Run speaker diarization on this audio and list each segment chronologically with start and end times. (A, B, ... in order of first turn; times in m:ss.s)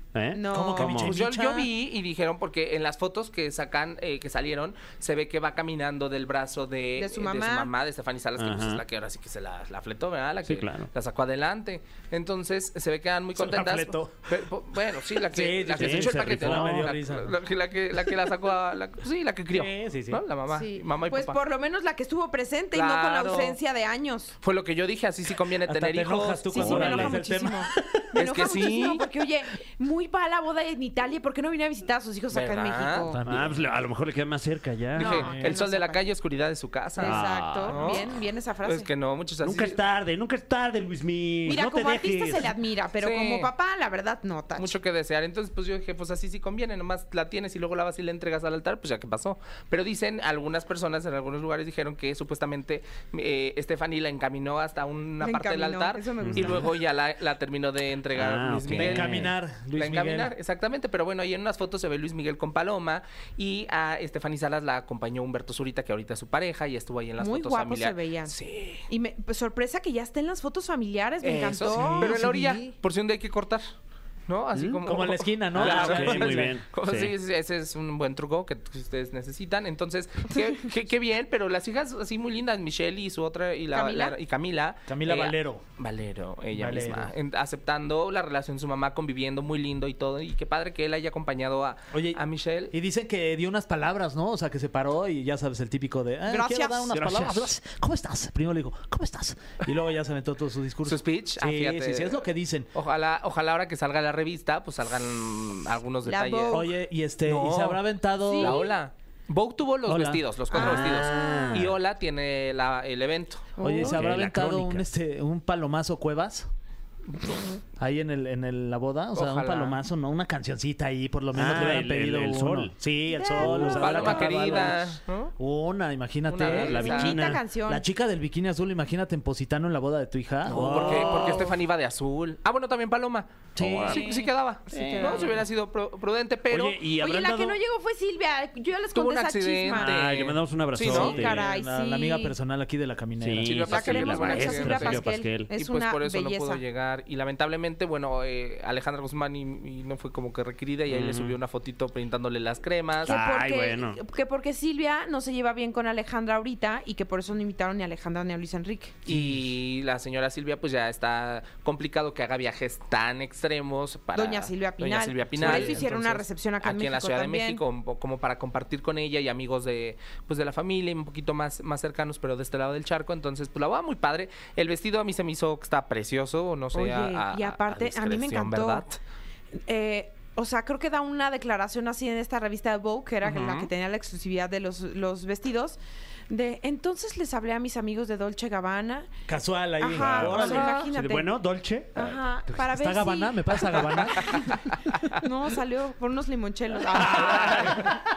0:00.1-0:01.2 A
0:00.3-0:01.0 B
0:00.5-0:01.7 C
0:01.0-0:21.4 D
0:07.0-0:07.7 B
0:08.4-0:08.8 A
0:10.5-0:10.9 A
0:13.3-0:14.2 C
0:15.3-0:17.4 C
0:15.8-0:16.9 A
0:19.5-0:20.2 C
0:20.5-0:24.3 B
0:22.7-0:23.6 D
0:24.4-0:27.1 D
0:25.6-0:28.0 C
0:26.5-0:33.2 B
0:26.6-0:27.1 A
0:28.1-0:29.0 D
0:32.3-0:33.1 D
0:33.1-0:33.6 C
0:33.2-0:35.3 A
0:35.0-0:38.1 D
0:35.0-0:36.1 B
0:35.1-0:35.5 C
0:36.9-0:38.9 B
0:37.0-0:38.2 A
0:38.6-0:39.8 D
0:39.4-0:42.4 A
0:41.4-0:44.7 B
0:43.0-0:43.5 D
0:44.6-0:59.2 D
0:55.2-0:56.7 B
0:56.2-0:56.6 A
0:58.1-0:59.3 A
0:58.7-1:00.3 C
0:59.7-1:08.8 D
1:07.2-1:08.3 B
1:08.9-1:12.7 B
1:11.2-1:13.6 D
1:11.7-1:12.6 C
1:14.3-1:32.7 D
1:14.5-1:17.1 A
1:14.8-1:16.6 C
1:23.7-1:24.2 B
1:24.8-1:25.6 C
1:26.5-1:27.1 C
1:31.9-1:42.7 C
1:36.3-1:36.9 B
1:36.9-1:37.5 A
1:40.8-1:46.7 D
1:46.0-1:46.7 B
1:46.5-1:48.6 C
1:47.2-1:47.8 D
1:48.2-1:48.7 B
1:48.4-1:53.5 D
1:49.8-1:50.2 C
1:50.5-1:51.6 B
1:50.5-1:51.7 A
1:53.6-1:54.1 B
1:53.6-1:56.5 C
1:53.8-1:54.8 A
1:57.1-1:57.6 D
1:57.8-2:06.8 C
1:59.1-1:59.8 D
2:01.3-2:02.7 A
2:03.1-2:04.6 B
2:03.4-2:04.5 A
2:03.6-2:05.3 D
2:06.3-2:07.3 D
2:06.3-2:07.4 A
2:06.5-2:07.8 B
2:07.7-2:11.6 C
2:10.4-2:11.5 A
2:10.5-2:16.8 D
2:13.6-2:14.1 C
2:13.6-2:14.1 A
2:13.9-2:15.3 B
2:14.7-2:15.3 C
2:14.7-2:15.3 A
2:16.5-2:17.6 A
2:16.9-2:19.9 B
2:18.9-2:21.3 D
2:19.7-2:21.4 A
2:20.8-2:22.3 B
2:20.9-2:23.7 C
2:23.2-2:25.5 A
2:23.4-2:33.1 D
2:23.6-2:26.6 B
2:30.9-2:31.4 A
2:33.0-2:39.0 B
2:33.1-2:34.0 A
2:39.0-2:59.0 D
2:39.1-2:39.4 C
2:44.1-2:47.6 B
2:45.4-2:45.8 C
2:45.4-2:45.8 A
2:56.7-2:58.9 B
2:59.6-3:05.8 B
3:03.2-3:03.7 A
3:06.3-3:09.1 B
3:09.3-3:10.8 C
3:09.8-3:11.4 B
3:09.9-3:12.6 A
3:11.9-3:14.5 B
3:12.7-3:14.6 C
3:13.9-3:14.6 D
3:15.2-3:17.7 B
3:16.9-3:17.9 D
3:17.5-3:17.9 C